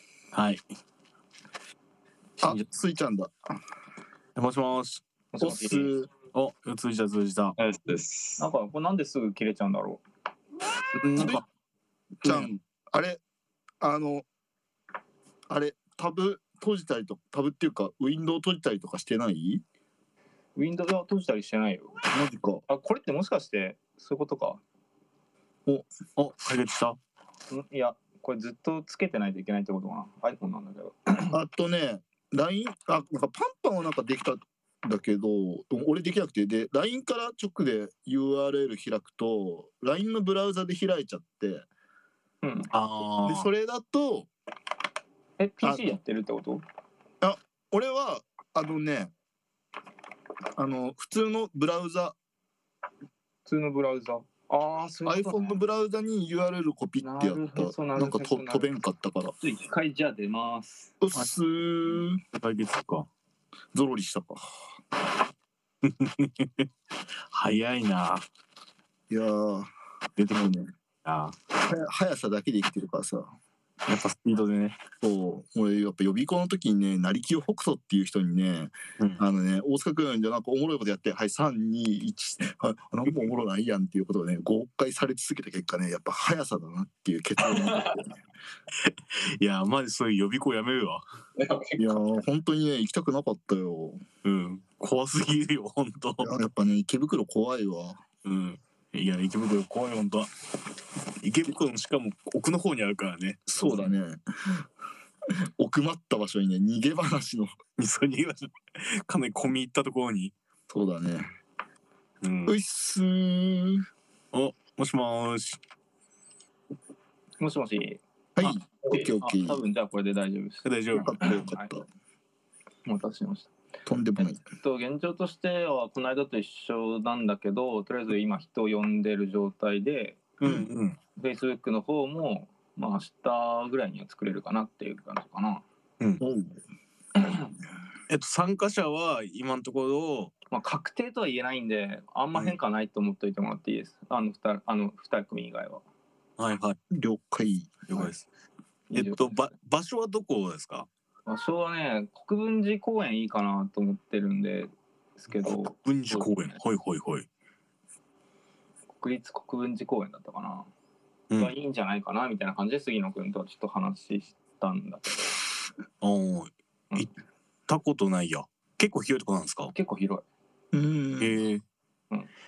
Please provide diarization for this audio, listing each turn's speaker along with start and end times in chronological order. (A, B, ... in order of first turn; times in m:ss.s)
0:00.3-0:00.6 A
0:02.4-0:03.3 B
0:04.4-0:05.0 A
0:05.3-0:05.9 C
0:05.4-0:06.1 B
0:06.3-0:07.5 A
0:07.6-0:08.5 D
0:08.4-0:10.0 C
0:10.9-0:11.4 A
0:11.2-0:11.4 B
0:12.2-0:13.2 B
0:12.2-0:12.5 A
0:13.8-0:14.2 B
0:15.5-0:19.6 B
0:20.6-0:22.0 C
0:22.1-0:22.6 B
0:22.7-0:24.6 C
0:26.2-0:27.0 A
0:27.5-0:31.3 C
0:31.3-0:41.7 B
0:42.4-0:42.7 C
0:42.7-0:43.5 A
0:43.2-0:44.3 B
0:45.4-0:46.6 C
0:47.2-0:49.1 B
0:50.6-0:52.1 B
0:53.4-0:55.6 C
0:55.0-0:59.3 B
0:57.0-0:58.7 C
0:59.4-1:00.9 C
1:01.0-1:02.2 B
1:02.3-1:03.1 A
1:03.7-1:04.6 B
1:05.8-1:06.7 A
1:07.3-1:08.2 A
1:09.1-1:09.7 B
1:10.2-1:11.4 A
1:10.3-1:10.6 B
1:11.6-1:13.3 B
1:13.8-1:14.8 A
1:15.0-1:28.2 B
1:27.5-1:28.0 D
1:28.8-1:31.0 A
1:31.4-1:32.0 D
1:31.8-1:34.0 B
1:34.2-1:36.3 A
1:36.2-1:38.0 B
1:38.2-1:40.3 A
1:41.2-1:43.9 A
1:43.5-1:44.6 B
1:45.6-1:47.6 B
1:47.8-1:50.3 A
1:50.7-1:51.3 B
1:52.2-1:52.6 A
1:52.4-1:53.8 B
1:54.3-1:55.6 A
1:57.4-1:58.0 C
1:58.4-1:59.6 B
1:59.2-2:01.7 C
2:00.6-2:01.2 A
2:00.9-2:01.8 B
2:02.8-2:03.5 C
2:03.8-2:04.4 B
2:04.5-2:10.2 C
2:10.4-2:11.0 A
2:11.2-2:15.6 C
2:16.2-2:16.6 B
2:18.1-2:20.3 A
2:20.5-2:25.8 C
2:26.4-2:26.8 A
2:26.9-2:28.1 B
2:27.9-2:28.2 A
2:28.9-2:29.5 C
2:28.9-2:30.9 A
2:31.3-2:36.6 C
2:35.8-2:37.3 A
2:39.0-2:40.7 C
2:41.3-2:45.4 C
2:46.0-2:47.1 A
2:47.7-2:49.7 A
2:49.7-2:50.2 C
2:50.7-2:51.4 B
2:51.2-2:51.6 A